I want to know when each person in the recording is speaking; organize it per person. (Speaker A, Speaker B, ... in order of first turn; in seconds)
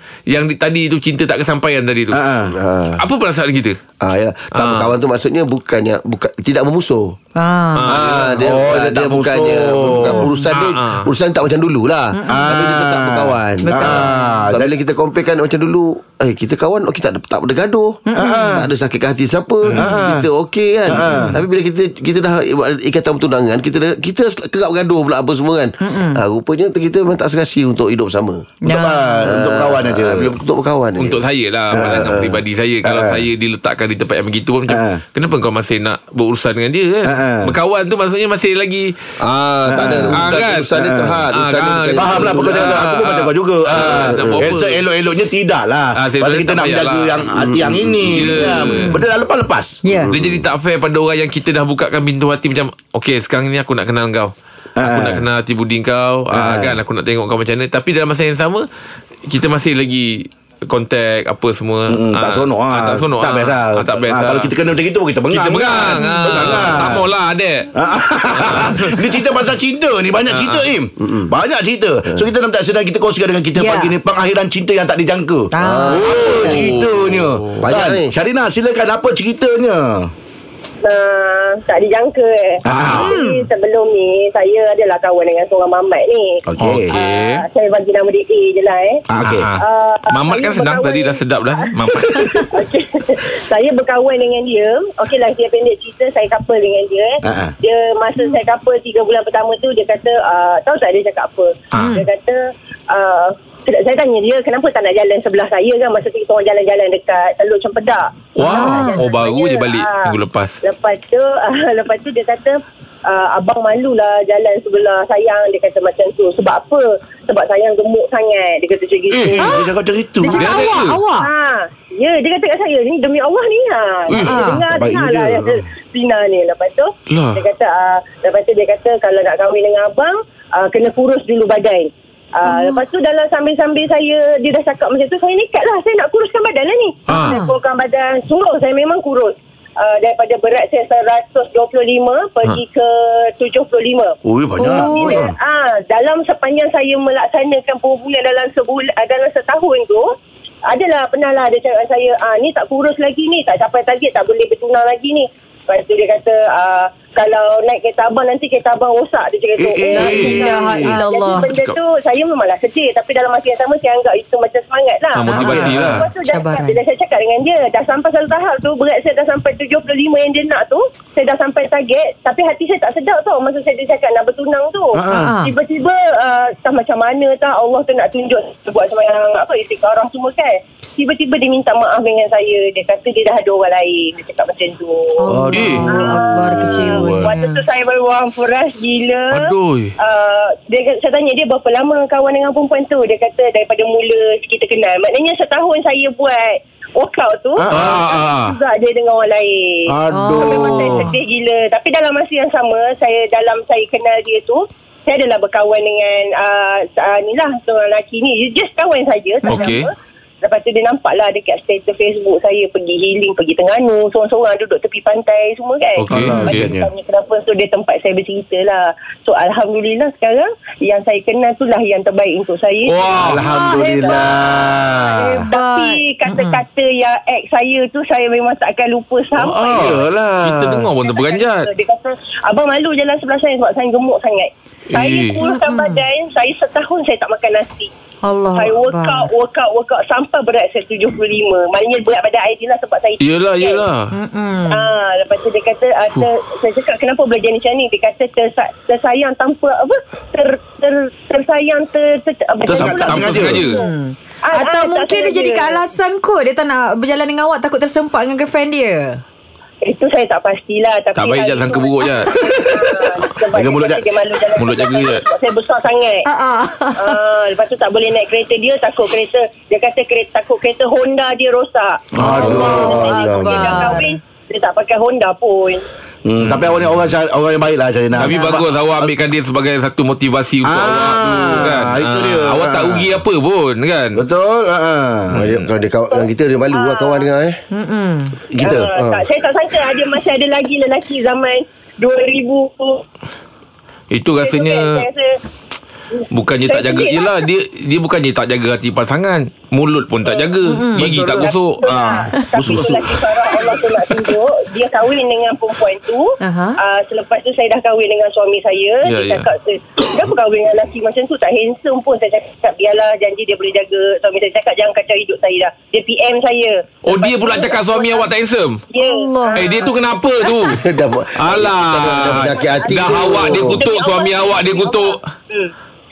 Speaker A: 0.3-2.2, 3.0-3.8, 4.5-4.9, 7.8-8.2, 10.5-11.1, 31.0-38.9, 40.1-40.7, 41.3-44.8, 46.0-47.2, 48.1-49.0, 50.1-58.6, 59.3-64.5, 65.3-67.7, 68.4-69.2, 70.3-70.7, 76.4-77.6, 82.7-83.0, 86.6-87.4, 89.2-92.5, 108.3-110.6, 120.3-121.0, 127.1-127.4, 137.1-137.4, 165.2-166.1, 185.5-185.8, 189.3-189.9, 197.7-198.6, 209.5-209.9, 216.0-216.6, 222.8-223.4, 229.4-231.7, 234.9-235.4, 243.2-244.1, 252.9-253.8, 261.1-262.5, 264.6-265.2, 276.4-276.8, 278.2-284.2, 285.3-285.6, 294.1-295.0, 296.3-302.3, 309.0-309.5, 317.1-318.8, 319.6-320.8, 321.4-325.2
Speaker B: 2.1-2.5, 8.1-10.3, 12.3-14.7, 18.1-18.7, 19.7-20.3, 20.9-21.3, 28.6-30.3, 31.7-32.1, 32.8-33.2, 34.7-35.0, 37.0-37.5, 39.7-41.2, 41.9-49.8, 54.8-55.2, 56.3-56.8, 61.9-67.0, 67.7-80.1, 82.6-83.1, 86.5-87.0, 89.1-89.5, 97.2-97.5, 119.1-120.9, 124.1-125.6, 144.2-145.3, 159.6-161.0, 165.3-166.0, 174.9-175.3, 185.3-187.3, 197.6-198.0, 199.9-201.1, 216.1-216.9, 223.1-225.5, 229.4-230.9, 252.7-253.6, 263.5-264.0, 272.1-273.0, 276.2-279.1, 280.6-283.1, 284.1-285.4, 288.5-288.9, 300.9-301.5, 302.5-303.2
Speaker C: 2.5-3.0, 4.0-7.2, 7.9-28.5, 29.2-31.2, 31.8-32.4, 39.2-42.8, 43.8-44.5, 47.4-48.4, 49.9-50.4, 71.0-71.3, 75.6-76.7, 77.6-78.1, 272.3-273.9, 285.3-287.6, 288.6-289.2, 320.7-323.8
Speaker D: 7.4-7.8, 10.2-10.4, 12.1-12.5, 13.6-14.0, 18.1-18.6, 21.1-21.4, 25.8-26.2, 28.6-29.2, 49.8-50.1, 66.0-66.2, 73.5-73.9, 75.5-76.6, 83.0-83.4, 92.1-92.5, 101.8-102.0, 108.4-109.0, 119.4-121.3, 124.2-124.6, 132.4-132.8, 137.1-137.5, 144.6-145.2, 159.9-161.5, 165.2-165.7, 166.2-166.8, 175.1-175.5, 185.2-187.6, 200.1-201.1, 209.4-209.8, 223.4-226.6, 235.4-236.0, 238.2-239.3, 244.1-244.9, 253.6-259.2, 266.2-267.2, 272.5-274.1, 278.2-278.5, 287.7-288.4, 300.6-301.0, 306.4-306.8, 319.0-319.8
Speaker E: 80.8-86.4, 86.9-89.0, 89.6-110.1, 110.6-119.6, 121.2-150.1, 150.7-185.2, 185.9-223.4, 225.5-230.1, 231.0-237.9, 238.5-243.8, 244.7-253.9, 254.5-255.8, 259.8-266.2, 266.9-275.8, 286.1-287.3, 288.6-293.0, 294.4-295.3, 296.1-297.4, 300.2-300.5, 301.4-318.3, 318.9-319.9, 322.1-325.7